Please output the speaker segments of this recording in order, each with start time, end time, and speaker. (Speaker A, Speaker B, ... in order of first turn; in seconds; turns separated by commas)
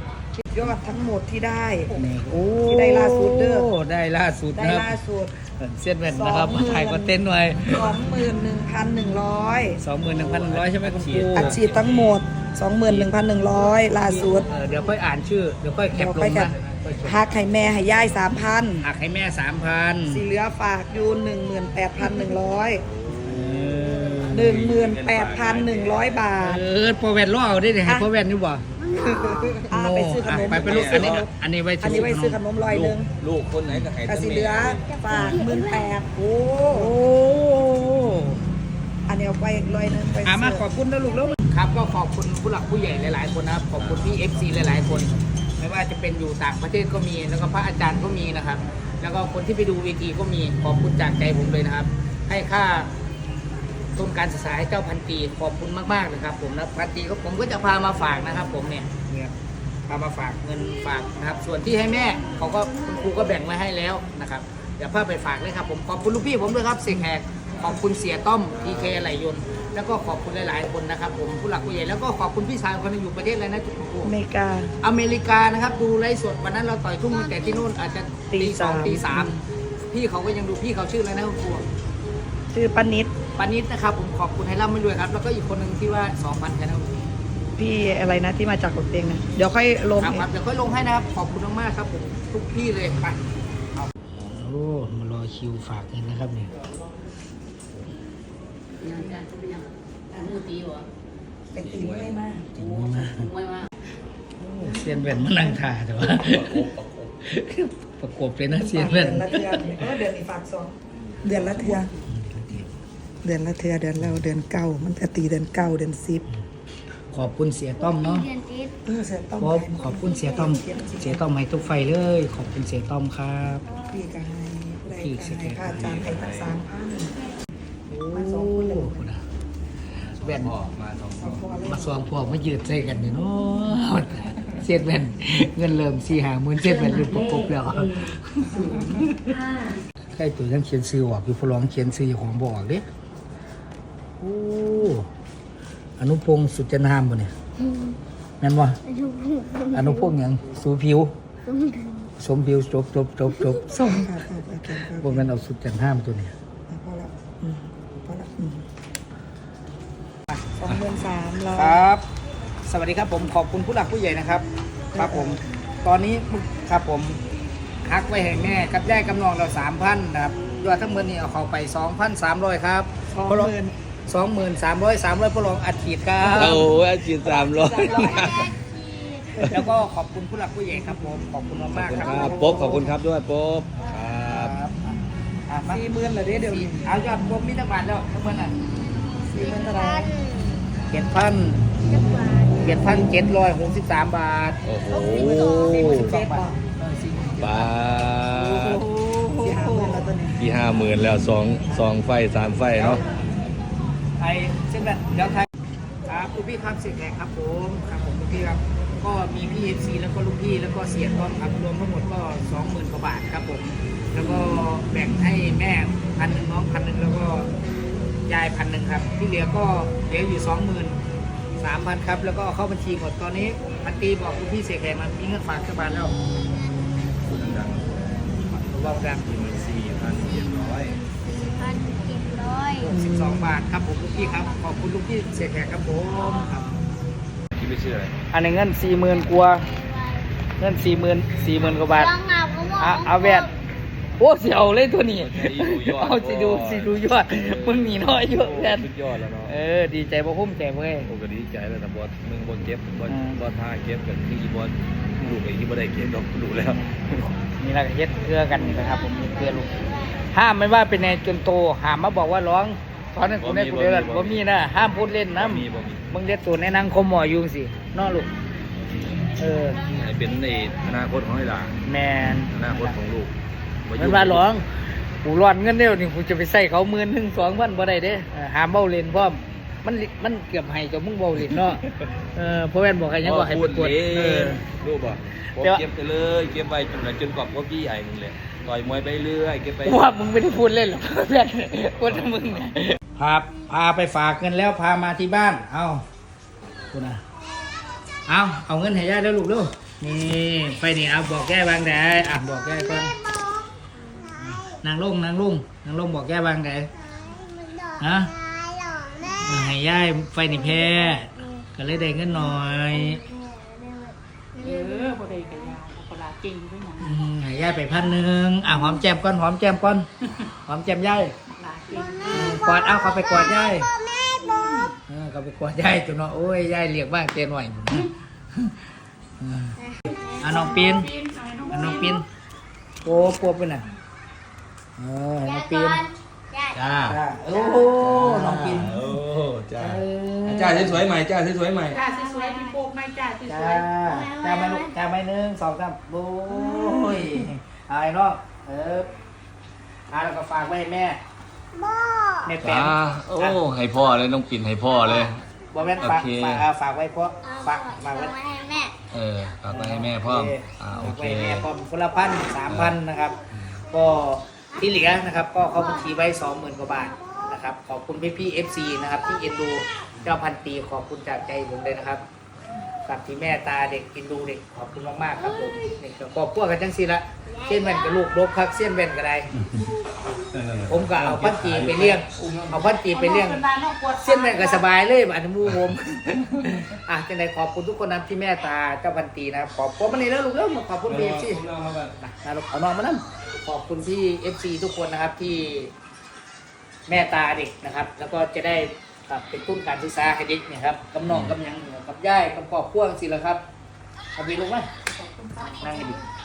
Speaker A: 0.4-2.0, Speaker B: 1.9-8.0, Speaker A: 2.6-3.7, Speaker A: 4.5-5.3, Speaker A: 6.1-7.2, Speaker A: 7.7-9.8, Speaker B: 9.8-11.6, Speaker C: 10.1-12.2, Speaker A: 11.3-14.5, Speaker B: 13.9-17.4, Speaker A: 15.9-16.5, Speaker A: 17.1-18.9, Speaker B: 18.8-20.2, Speaker A: 20.1-22.8, Speaker C: 23.0-26.2, Speaker B: 23.2-24.6, Speaker A: 24.3-26.6, Speaker B: 26.4-28.6, Speaker A: 28.9-33.1, Speaker D: 29.2-29.5, Speaker B: 29.7-32.4, Speaker C: 30.4-31.2, Speaker C: 32.6-34.8, Speaker A: 34.0-36.9, Speaker D: 35.2-35.8, Speaker B: 36.7-38.4, Speaker A: 39.1-40.6, Speaker B: 40.2-52.9, Speaker C: 43.8-45.2, Speaker B: 54.0-59.3, Speaker B: 59.9-74.1, Speaker C: 68.6-69.0, Speaker A: 74.0-74.7, Speaker B: 74.8-81.6, Speaker A: 78.3-79.4, Speaker A: 82.5-83.1, Speaker B: 83.4-87.1, Speaker A: 87.6-90.3, Speaker B: 90.0-93.2, Speaker B: 93.7-96.5, Speaker A: 101.5-102.5, Speaker C: 101.6-102.2, Speaker B: 102.5-103.3, Speaker B: 104.4-106.7, Speaker C: 106.0-107.2, Speaker B: 107.2-109.8, Speaker A: 108.6-111.9, Speaker B: 112.0-112.7, Speaker A: 113.2-116.2, Speaker B: 117.1-118.3, Speaker D: 117.9-118.7, Speaker A: 118.9-121.2, Speaker B: 119.4-123.7, Speaker A: 123.9-127.1, Speaker B: 125.0-126.0, Speaker C: 125.7-126.6, Speaker B: 127.9-129.2, Speaker A: 128.1-129.1, Speaker C: 130.0-131.6, Speaker B: 130.2-130.5, Speaker A: 131.2-132.0, Speaker B: 131.7-139.3, Speaker B: 140.1-142.8, Speaker B: 144.2-145.1, Speaker B: 146.0-147.3, Speaker B: 148.4-148.8, Speaker D: 148.9-149.7, Speaker B: 149.7-151.1, Speaker D: 151.5-152.1, Speaker B: 152.2-154.1, Speaker A: 153.7-155.3, Speaker B: 154.9-156.3, Speaker A: 156.7-158.7, Speaker A: 160.6-161.9, Speaker B: 161.5-162.0, Speaker B: 162.7-167.2, Speaker A: 164.9-165.4, Speaker B: 167.8-173.5, Speaker A: 173.1-173.7, Speaker B: 174.1-176.7, Speaker C: 176.2-178.6, Speaker A: 177.2-178.3, Speaker B: 179.4-182.9, Speaker C: 181.7-184.6, Speaker A: 182.0-182.8, Speaker B: 184.3-184.9, Speaker B: 185.5-185.8, Speaker A: 185.7-186.9, Speaker B: 186.3-188.6, Speaker A: 189.3-190.1, Speaker D: 189.8-190.5, Speaker B: 190.9-191.6, Speaker D: 191.9-192.6, Speaker B: 192.6-194.6, Speaker C: 194.6-196.1, Speaker B: 195.1-199.9, Speaker A: 195.8-196.6, Speaker C: 197.4-199.8, Speaker A: 199.4-200.5, Speaker C: 200.4-203.0, Speaker B: 202.8-203.0, Speaker B: 204.2-205.5, Speaker B: 206.1-217.5, Speaker B: 218.3-221.0, Speaker B: 221.6-226.1, Speaker C: 227.2-228.4, Speaker B: 228.6-229.2, Speaker C: 229.2-231.0, Speaker D: 230.9-232.9, Speaker B: 232.8-236.8, Speaker A: 232.9-233.6, Speaker C: 237.6-238.1, Speaker B: 238.3-239.7, Speaker D: 239.8-240.2, Speaker B: 240.6-242.2, Speaker D: 241.9-243.4, Speaker B: 242.8-243.5, Speaker B: 244.2-248.9, Speaker C: 245.2-249.5, Speaker B: 249.4-251.1, Speaker C: 251.1-256.8, Speaker B: 253.1-253.4, Speaker B: 256.8-268.3, Speaker C: 263.4-264.4, Speaker C: 265.4-266.0, Speaker B: 269.4-269.8, Speaker C: 269.8-271.8, Speaker B: 271.9-273.0, Speaker C: 272.5-273.3, Speaker C: 273.9-274.4, Speaker B: 274.0-274.6, Speaker B: 275.2-281.8, Speaker C: 281.4-282.0, Speaker B: 282.4-284.6, Speaker C: 283.2-290.1, Speaker B: 285.6-285.8, Speaker B: 289.8-296.0, Speaker C: 292.0-292.7, Speaker B: 296.9-297.2, Speaker B: 298.3-303.2, Speaker B: 304.4-306.9, Speaker D: 307.3-307.9, Speaker B: 308.0-308.3, Speaker D: 308.6-309.4, Speaker B: 309.4-313.2, Speaker D: 313.2-314.6, Speaker E: 314.6-317.2, Speaker B: 317.0-320.1, Speaker B: 320.6-321.3, Speaker E: 321.5-322.7, Speaker B: 322.3-323.9, Speaker D: 324.1-324.6, Speaker B: 325.1-328.1, Speaker B: 329.4-331.1, Speaker E: 330.9-332.2, Speaker B: 331.7-332.2, Speaker B: 333.0-333.9, Speaker B: 335.0-336.1, Speaker D: 335.9-336.7, Speaker C: 336.7-337.2, Speaker B: 337.1-339.0, Speaker C: 337.9-342.0, Speaker B: 339.8-341.1, Speaker E: 341.9-343.9, Speaker B: 343.5-349.1, Speaker D: 344.3-344.8, Speaker C: 346.8-347.2, Speaker B: 350.1-351.2, Speaker D: 351.8-352.3, Speaker B: 352.4-353.6, Speaker C: 352.6-355.4, Speaker B: 355.7-358.4, Speaker C: 356.0-356.7, Speaker D: 358.3-358.9, Speaker C: 359.1-361.7, Speaker B: 359.7-372.2, Speaker C: 362.7-363.0, Speaker B: 373.1-379.5, Speaker C: 380.5-382.8, Speaker B: 380.9-383.6, Speaker E: 383.0-384.8, Speaker B: 384.1-391.6, Speaker C: 391.1-392.2, Speaker B: 392.2-395.9, Speaker B: 397.1-403.6, Speaker C: 401.3-401.6, Speaker B: 404.4-404.9, Speaker E: 405.1-406.2, Speaker B: 405.7-406.2